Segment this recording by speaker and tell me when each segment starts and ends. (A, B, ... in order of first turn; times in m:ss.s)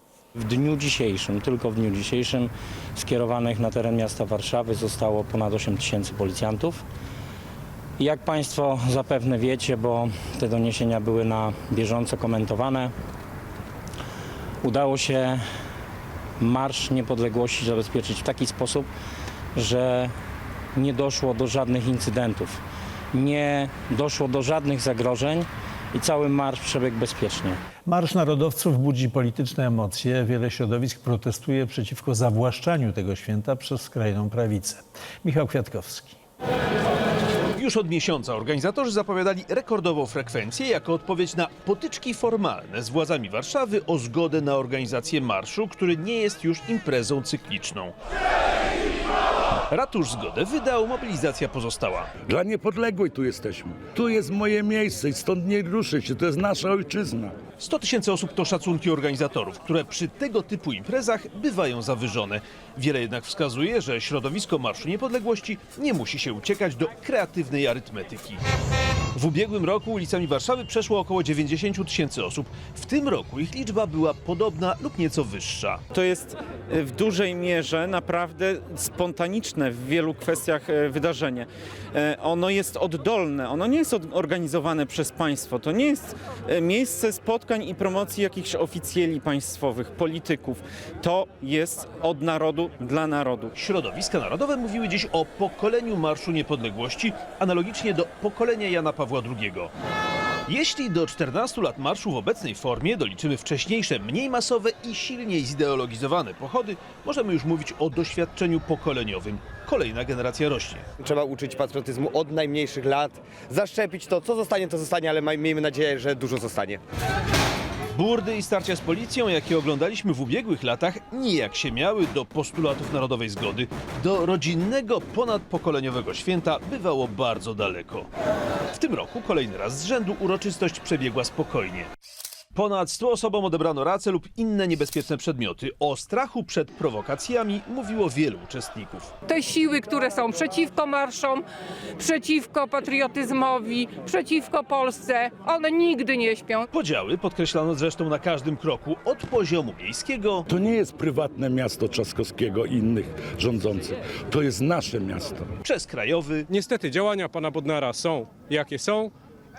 0:00.4-0:06.8 A
0:08.0-0:12.9 A
0:14.6-0:15.4 A
0:16.4-0:18.9 A
0:19.5-0:20.1 A
0:20.7-0:22.6 A
0:23.1-0:27.6 A
0:27.8-0:36.2 B
0:37.6-0:47.9 C
0:49.7-0:52.1 C
0:52.2-0:57.4 D
0:57.6-1:08.4 C
1:09.1-1:15.8 C
1:15.9-1:33.5 E
1:33.5-1:39.7 C
1:40.5-1:50.8 C
1:51.0-1:56.8 F
1:57.9-2:08.1 C
2:08.7-2:11.9 C
2:12.5-2:19.1 C
2:19.2-2:21.4 G
2:22.0-2:26.7 G
2:26.7-2:30.5 C
2:30.5-2:35.5 D
2:35.6-2:36.5 C
2:36.5-2:39.1 H